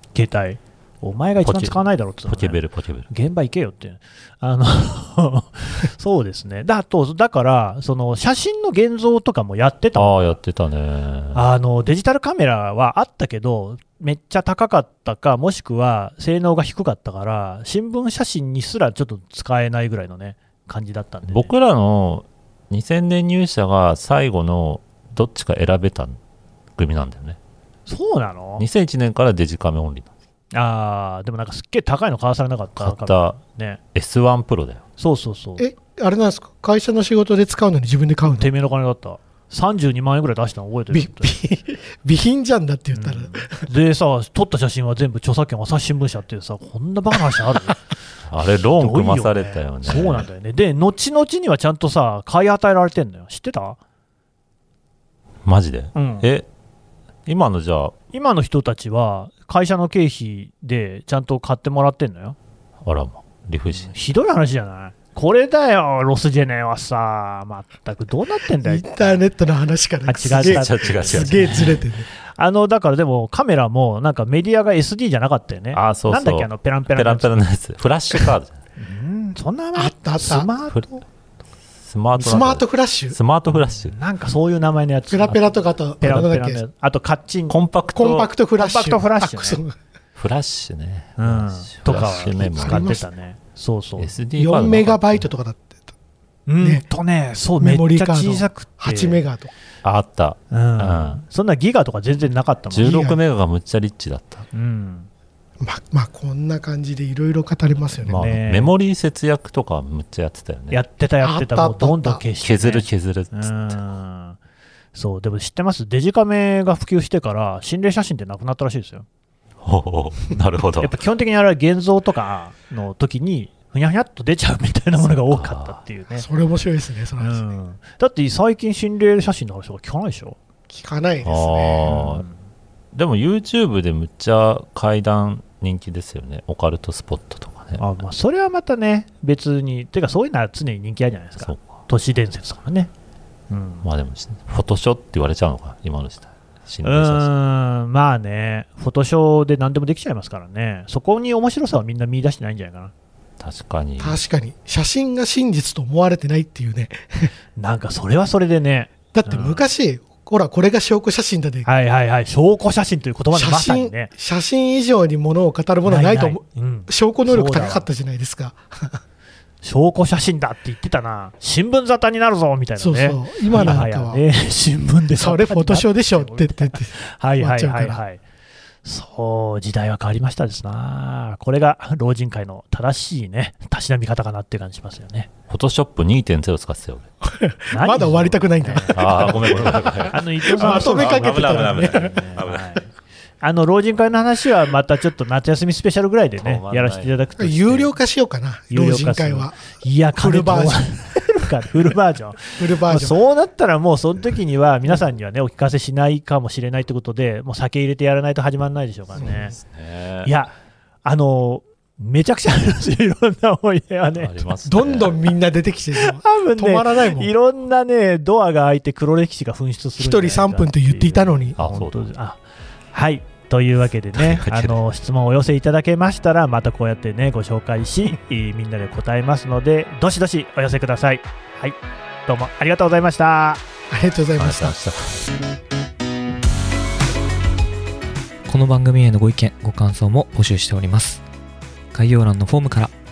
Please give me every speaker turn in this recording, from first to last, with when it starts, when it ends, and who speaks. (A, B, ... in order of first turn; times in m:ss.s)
0:00.1-0:02.6 A
0:01.4-0:03.1 B
0:03.1-0:10.4 A
0:10.0-0:11.4 B
0:11.3-0:21.5 A
0:21.3-0:26.2 B
0:26.8-0:27.4 B
0:27.9-0:28.6 A
0:28.6-0:30.1 B
0:30.5-0:33.8 A
0:32.8-0:33.4 B
0:34.0-0:34.8 B
0:35.0-0:35.6 A
0:35.6-0:38.5 C
0:38.2-0:41.4 A
0:40.9-0:43.6 C
0:42.9-0:47.8 A
0:48.3-0:50.3 B
0:48.8-0:53.8 A
0:55.4-0:56.5 B
0:56.0-0:56.3 A
0:57.3-0:57.9 B
0:58.1-1:02.4 A
1:02.8-1:03.9 B
1:03.7-1:09.2 A
1:08.6-1:12.1 C
1:10.1-1:11.7 A
1:10.4-1:11.8 B
1:12.2-1:17.3 A
1:15.7-1:18.6 B
1:18.8-1:21.0 A
1:19.8-1:20.5 C
1:21.8-1:24.0 B
1:22.2-1:23.2 C
1:23.5-1:25.4 A
1:25.1-1:26.6 C
1:26.0-1:27.6 A
1:27.5-1:28.3 B
1:28.0-1:29.8 C
1:28.6-1:29.6 A
1:30.2-1:33.0 B
1:31.2-1:34.1 A
1:32.4-1:33.0 C
1:34.0-1:35.2 B
1:34.4-1:35.8 C
1:36.5-1:39.2 A
1:36.6-1:36.9 C
1:37.6-1:39.5 C
1:39.8-1:41.2 B
1:40.5-1:43.1 A
1:42.7-1:44.5 B
1:42.8-1:43.2 C
1:44.5-1:45.1 A
1:45.6-1:48.2 C
1:48.1-1:48.7 A
1:48.1-1:50.8 B
1:50.7-1:54.4 A
1:51.2-1:52.2 C
1:52.4-1:53.7 B
1:55.0-1:59.1 A
1:59.6-2:01.0 B
2:00.8-2:06.3 A
2:05.0-2:05.8 B
2:06.1-2:07.5 C
2:07.2-2:10.4 A
2:10.7-2:12.0 C
2:11.2-2:12.3 B
2:11.9-2:12.4 A
2:12.9-2:18.0 B
2:17.8-2:22.9 A
2:21.4-2:21.8 B
2:23.5-2:23.9 A
2:23.8-2:27.3 B
2:26.8-2:32.9 A
2:33.4-2:34.2 B
2:34.0-2:37.3 C
2:37.6-2:39.7 A
2:39.1-2:41.7 C
2:41.6-2:44.1 A
2:43.3-2:49.0 C
2:45.8-2:47.9 A
2:49.6-2:58.2 A
2:52.8-2:54.2 C
2:55.2-2:58.0 C
2:58.8-3:05.3 A
3:05.5-3:07.1 B
3:07.2-3:12.2 C
3:07.7-3:12.9 A
3:08.9-3:12.8 B
3:13.4-3:17.6 A
3:16.4-3:17.9 B
3:17.4-3:20.9 C
3:18.7-3:29.6 A
3:22.6-3:23.2 C
3:29.2-3:29.4 C
3:29.2-3:30.3 B
3:30.2-3:30.5 A
3:31.0-3:34.5 A
3:34.1-3:35.2 B
3:34.6-3:37.3 C
3:36.0-3:42.4 A
3:40.0-3:41.6 C
3:41.6-3:42.1 B
3:42.9-3:53.6 A
3:44.1-3:44.8 B
3:53.9-3:54.8 C
3:54.4-3:55.3 B
3:58.5-4:01.2 D
4:01.9-4:02.9 D